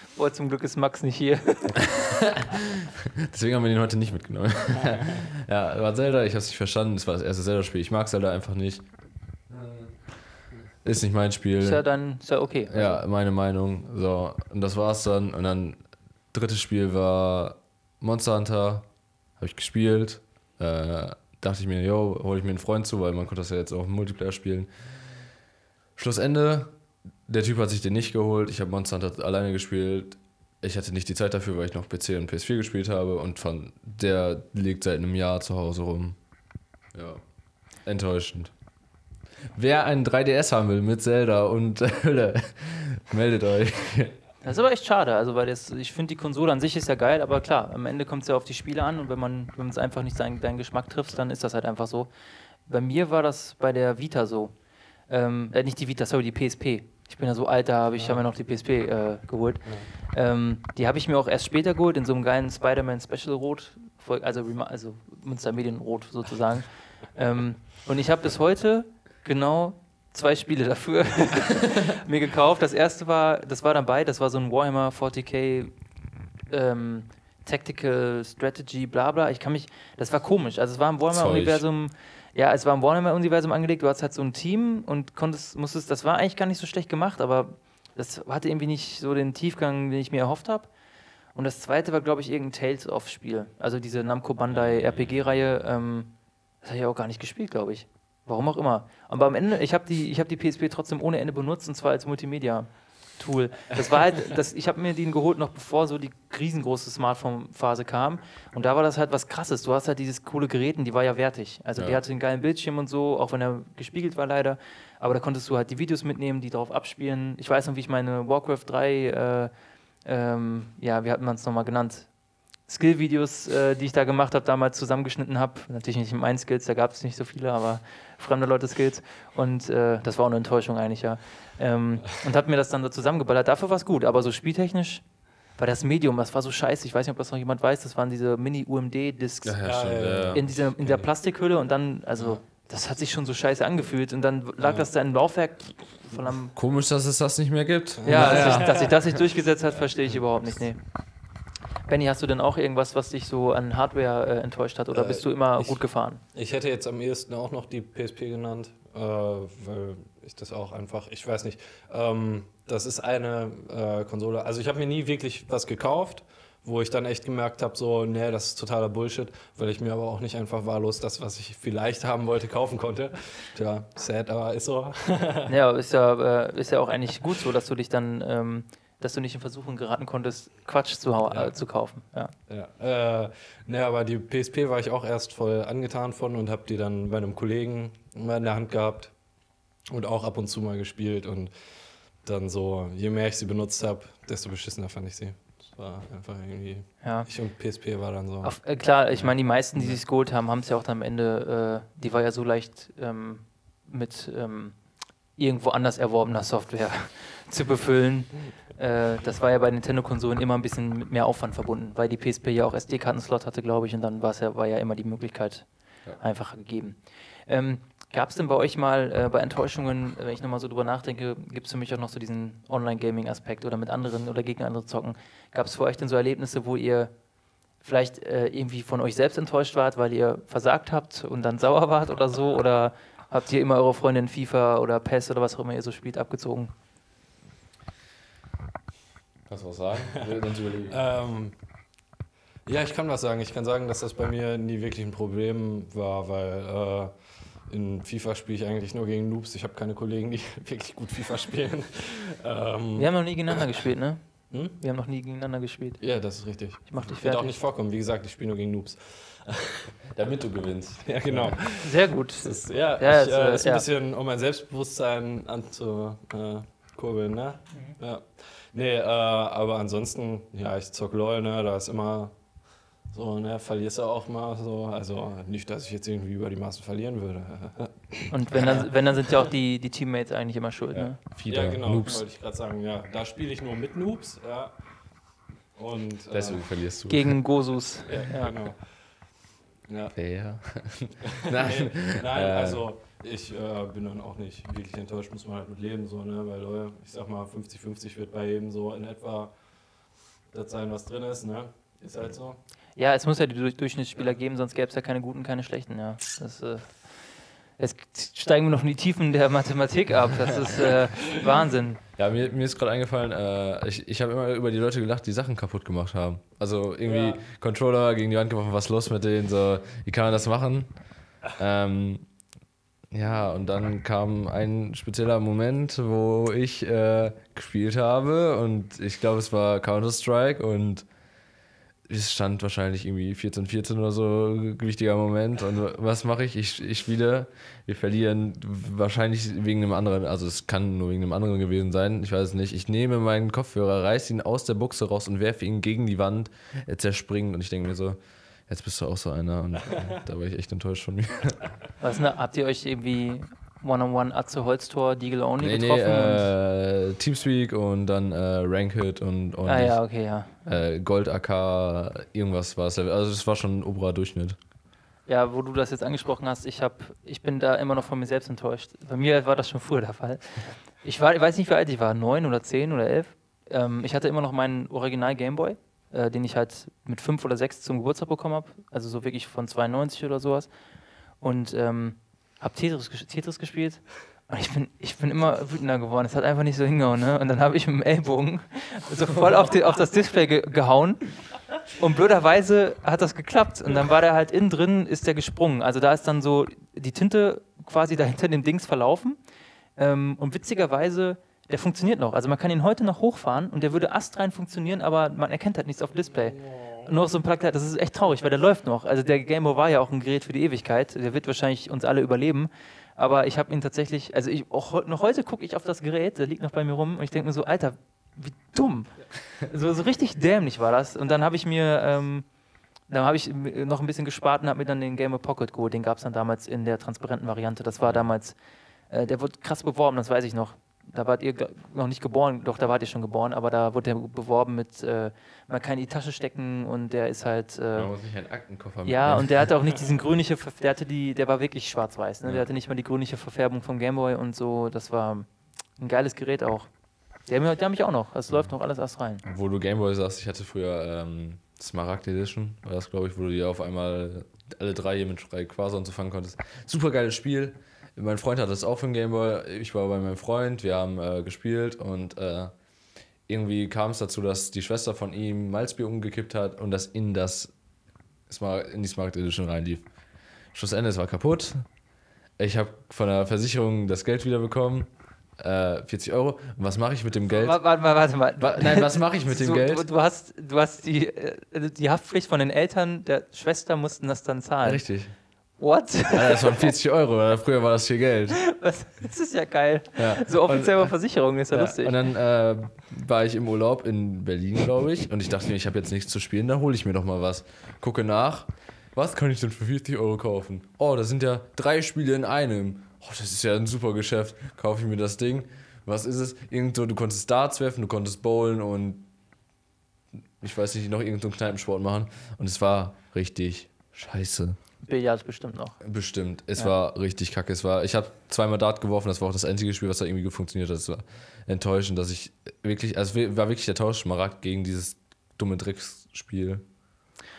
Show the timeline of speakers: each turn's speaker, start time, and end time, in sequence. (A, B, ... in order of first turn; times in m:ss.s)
0:00.2-0:01.8 A
0:01.8-0:08.8 B
0:09.5-0:10.0 B
0:10.8-0:11.8 B
0:11.6-0:13.0 A
0:12.7-0:18.9 B
0:19.4-0:24.7 B
0:26.0-0:26.8 B
0:27.3-0:36.2 B
0:36.9-0:37.2 B
0:37.8-0:38.5 B
0:39.5-0:44.1 B
0:44.4-0:52.1 A
0:52.7-0:54.5 A
0:55.1-1:15.7 A
0:58.0-0:58.2 C
1:16.5-1:30.7 A
1:21.1-1:21.6 B
1:31.4-1:59.5 A
2:00.0-2:02.1 A
2:02.7-2:15.0 A
2:15.6-2:19.6 A
2:19.4-2:20.4 B
2:19.6-2:21.1 C
2:20.3-2:26.5 A
2:24.6-2:24.9 C
2:26.6-2:28.8 B
2:28.0-2:29.0 C
2:28.1-2:30.8 A
2:31.9-2:36.2 A
2:34.9-2:35.8 C
2:36.3-2:55.5 C
2:55.5-3:02.3 A
3:01.3-3:01.6 C
3:02.5-3:09.2 C
3:09.9-3:11.5 C
3:12.2-3:20.0 C
3:17.0-3:17.3 A
3:18.4-3:24.8 A
3:25.4-3:35.7 A
3:36.2-3:47.1 A
3:47.8-3:56.7 A
3:59.5-4:01.0 B
4:00.9-4:01.5 C
4:02.7-4:07.1 C
4:07.7-4:13.8 C
4:13.0-4:16.0 A
4:14.5-4:14.8 C
4:16.0-4:19.9 C
4:16.9-4:17.5 A
4:20.2-4:21.6 B
4:21.0-4:32.4 C
4:21.8-4:23.8 A
4:33.1-4:38.9 C
4:38.3-4:41.2 A
4:40.9-4:42.2 B
4:41.5-4:44.7 C
4:45.8-4:46.7 C
4:46.3-4:47.4 B
4:47.1-4:48.6 A
4:48.1-4:48.9 C
4:49.9-4:50.2 C
4:50.2-4:52.8 B
4:51.3-4:59.5 C
5:00.5-5:02.6 C
5:03.0-5:07.2 A
5:07.8-5:12.0 A
5:12.2-5:22.3 B
5:17.0-5:17.4 C
5:23.1-5:31.1 B
5:32.1-5:51.7 B
5:52.0-5:56.5 A
5:55.6-6:04.6 B
5:59.7-6:00.7 A
6:05.3-6:20.7 A
6:21.4-6:31.3 A
6:31.9-6:39.4 A
6:40.0-7:02.5 A
7:03.1-7:08.6 A
7:09.1-7:18.1 A
7:18.0-7:19.7 B
7:19.0-7:25.5 A
7:26.0-7:26.9 A
7:27.5-7:29.4 A
7:29.4-7:42.7 B
7:43.5-7:47.7 B
7:48.5-7:50.0 B
7:50.7-7:51.9 B
7:52.6-7:57.8 B
7:57.5-8:05.0 A
7:58.6-8:00.1 B
8:04.8-8:05.3 B
8:05.8-8:06.9 A
8:06.3-8:08.6 B
8:08.6-8:12.2 A
8:10.2-8:29.3 B
8:30.6-8:34.8 B
8:35.0-8:36.0 A
8:36.0-8:46.8 B